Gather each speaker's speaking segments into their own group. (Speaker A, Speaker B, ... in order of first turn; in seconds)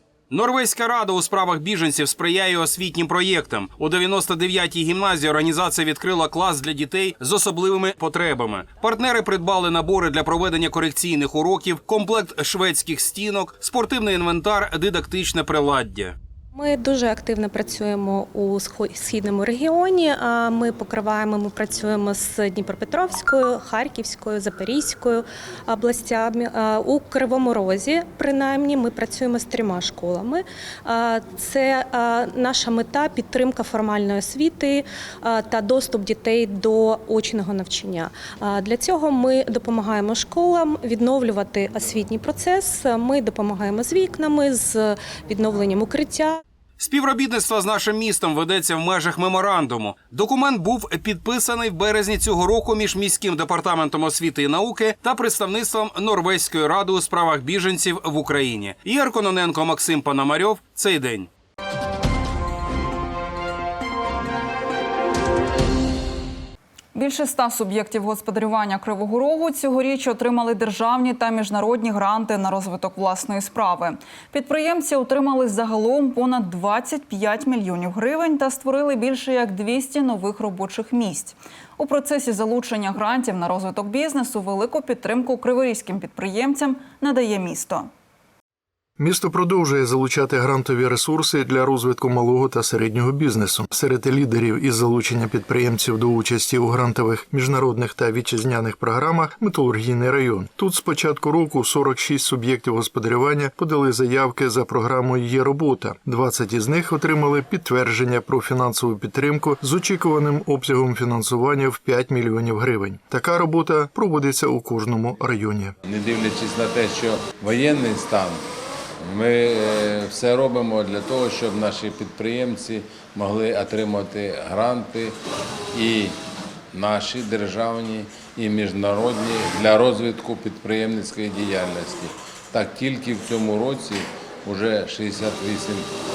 Speaker A: 0.3-16.1, 46.8-61.3
Speaker B: 16.5-46.4
Speaker C: 66.9-87.9
Speaker D: 89.0-115.7
Speaker E: 115.8-118.4, 119.0-125.2, 125.7-126.2, 126.7-135.9